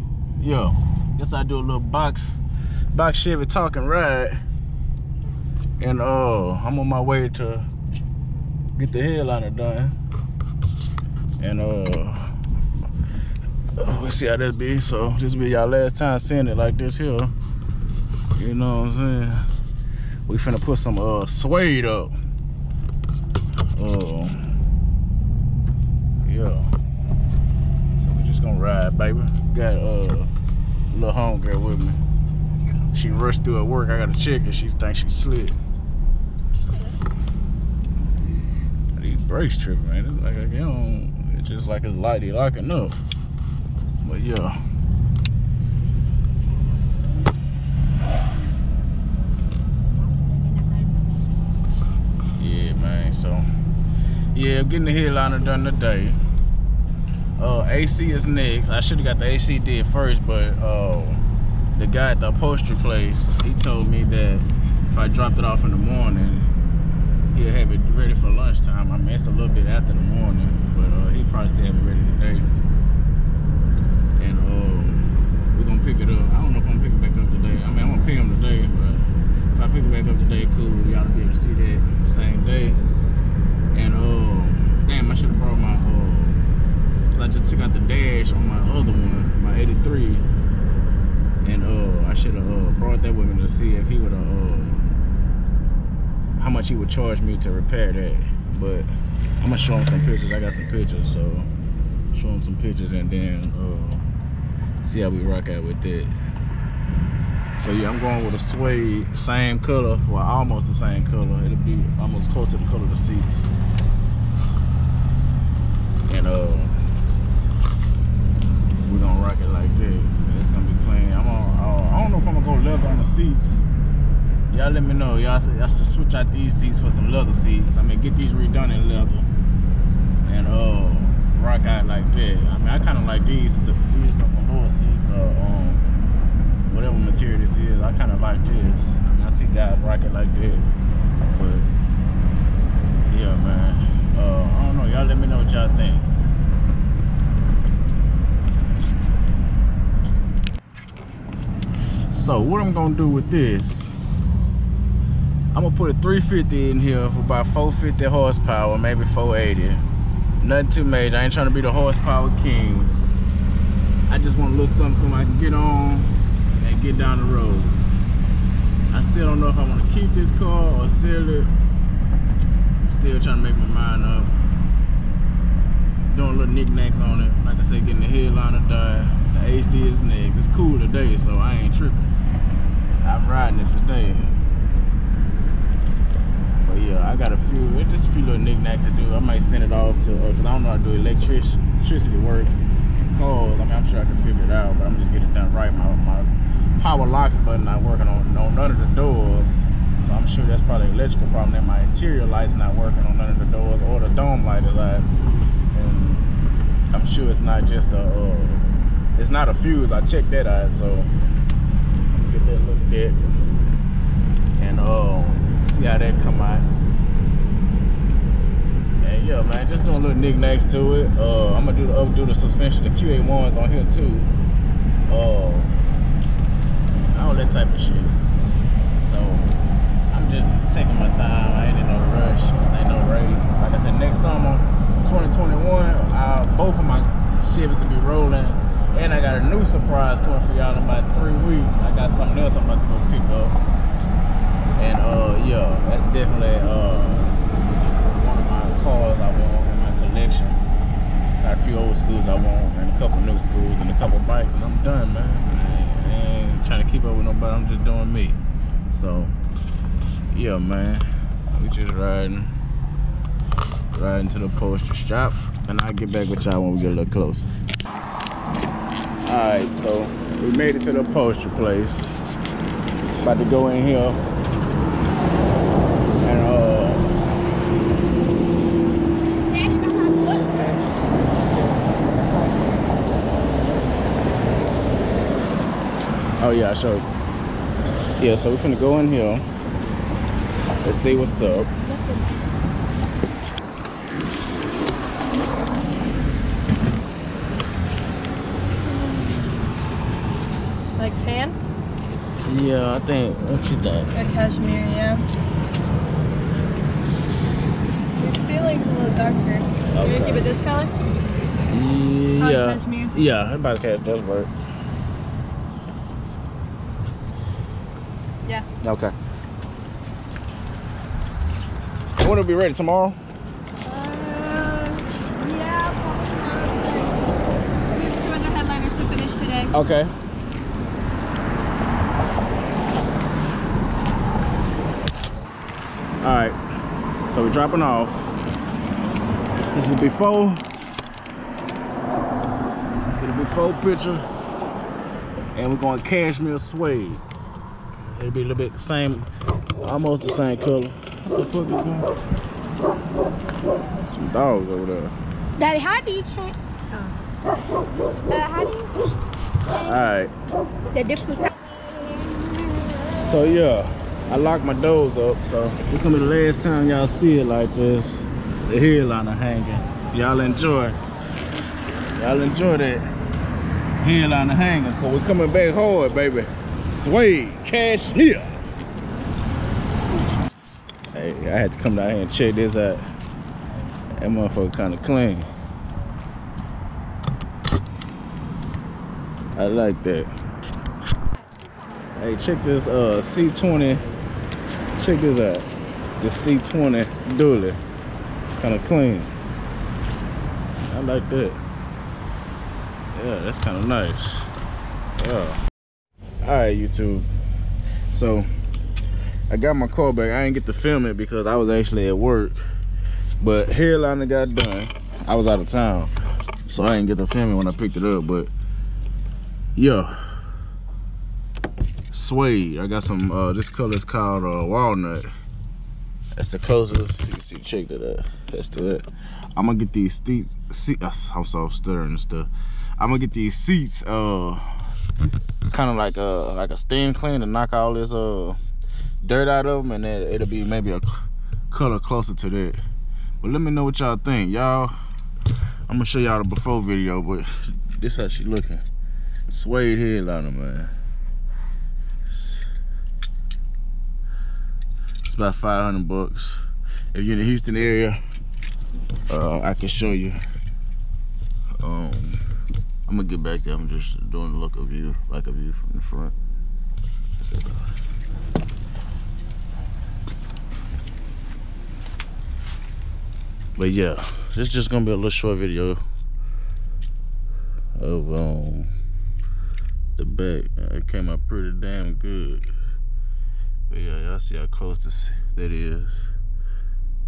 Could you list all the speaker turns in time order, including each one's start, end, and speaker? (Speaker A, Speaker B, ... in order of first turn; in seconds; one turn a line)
Speaker A: 0.4-2.4
Speaker A: 2.9-4.4
Speaker A: 5.8-7.7
Speaker A: 8.8-10.0
Speaker A: 11.4-12.3
Speaker A: 13.8-17.3
Speaker A: 18.4-19.5
Speaker A: 20.3-22.1
Speaker A: 23.7-24.4
Speaker A: 26.2-26.7
Speaker A: 28.0-30.3
Speaker A: 30.9-32.0
Speaker A: 32.9-35.5
Speaker A: 39.0-43.0
Speaker A: 44.0-44.6
Speaker B: 50.4-51.1
Speaker A: 52.4-53.5
Speaker A: 54.3-56.2
Speaker A: 57.4-61.2
Speaker A: 61.8-66.5
Speaker A: 67.3-72.5
Speaker A: 74.2-82.8
Speaker A: 83.7-86.4
Speaker A: 87.1-90.2
Speaker A: 91.4-94.9
Speaker A: 96.4-101.5
Speaker A: 102.1-104.0
Speaker A: 104.8-106.2
Speaker A: 107.6-113.5
Speaker A: 116.1-116.8
Speaker A: 118.8-123.7
Speaker A: 124.5-129.3
Speaker A: 130.2-135.9
Speaker A: 136.7-140.7
Speaker A: 141.3-141.7
Speaker A: 143.1-146.1
Speaker A: 152.1-154.0
Speaker A: 155.5-159.8
Speaker A: 160.4-162.9
Speaker A: 164.1-167.8
Speaker A: 168.9-171.5
Speaker A: 172.9-174.3
Speaker A: 176.1-182.1
Speaker A: 183.0-184.4
Speaker A: 186.6-205.1
Speaker A: 205.7-206.3
Speaker A: 206.9-208.7
Speaker A: 209.2-211.1
Speaker A: 212.1-213.2
Speaker A: 214.6-216.7
Speaker A: 219.0-224.3
Speaker A: 225.1-225.7
Speaker A: 227.1-228.2
Speaker A: 229.0-229.5
Speaker A: 230.1-243.6
Speaker A: 244.8-247.3
Speaker A: 248.1-250.6
Speaker A: 251.4-258.4
Speaker A: 258.9-259.4
Speaker A: 260.3-262.5
Speaker A: 263.9-267.5
Speaker A: 269.2-272.1
Speaker A: 273.2-274.2
Speaker A: 276.2-277.1
Speaker B: 279.5-280.7
Speaker A: 286.4-287.1
Speaker A: 288.2-289.4
Speaker A: 290.8-291.7
Speaker B: 291.9-292.5
Speaker C: 298.9-299.5
Speaker C: 301.0-301.6
Speaker A: 302.4-304.1
Speaker C: 304.1-305.2
Speaker C: 308.2-310.9
Speaker A: 309.9-310.4
Speaker A: 311.7-314.5
Speaker C: 312.4-313.1
Speaker A: 318.8-319.1
Speaker A: 322.2-323.2
Speaker B: 323.9-324.7
Speaker C: 324.0-327.0
Speaker B: 325.9-327.1
Speaker C: 327.9-329.7
Speaker A: 329.7-330.1
Speaker A: 336.2-336.6
Speaker A: 337.3-338.2
Speaker A: 339.7-340.6
Speaker A: 343.1-344.2
Speaker A: 345.6-347.2
Speaker A: 348.2-349.3
Speaker A: 349.8-352.1
Speaker A: 354.1-355.1
Speaker B: 355.6-357.1
Speaker B: 358.3-358.9
Speaker A: 359.7-360.3
Speaker B: 360.9-361.5
Speaker A: 363.2-371.0
Speaker A: 372.2-373.1
Speaker A: 374.0-378.5
Speaker A: 381.1-383.0
Speaker A: 384.2-385.5
Speaker A: 389.6-390.3
Speaker A: 392.2-394.0
Speaker A: 395.0-395.7
Speaker A: 396.2-397.8
Speaker A: 398.6-399.3
Speaker A: 400.9-401.6
Speaker A: 403.1-404.5
Speaker A: 405.2-405.6
Speaker A: 406.4-407.3
Speaker A: 408.1-408.5
Speaker A: 409.5-412.6
Speaker A: 413.4-416.1
Speaker A: 416.7-418.5
Speaker A: 419.8-420.2
Speaker A: 422.1-425.3
Speaker A: 426.4-434.8
Speaker A: 435.7-438.6
Speaker A: 439.2-442.8
Speaker A: 443.4-444.9
Speaker A: 445.9-448.8
Speaker A: 449.5-450.9
Speaker A: 452.3-452.7
Speaker A: 455.2-458.2
Speaker A: 459.3-460.4
Speaker A: 461.8-462.4
Speaker A: 463.1-466.4
Speaker A: 473.8-476.0
Speaker A: 478.0-478.9
Speaker A: 480.2-482.7
Speaker A: 483.9-486.4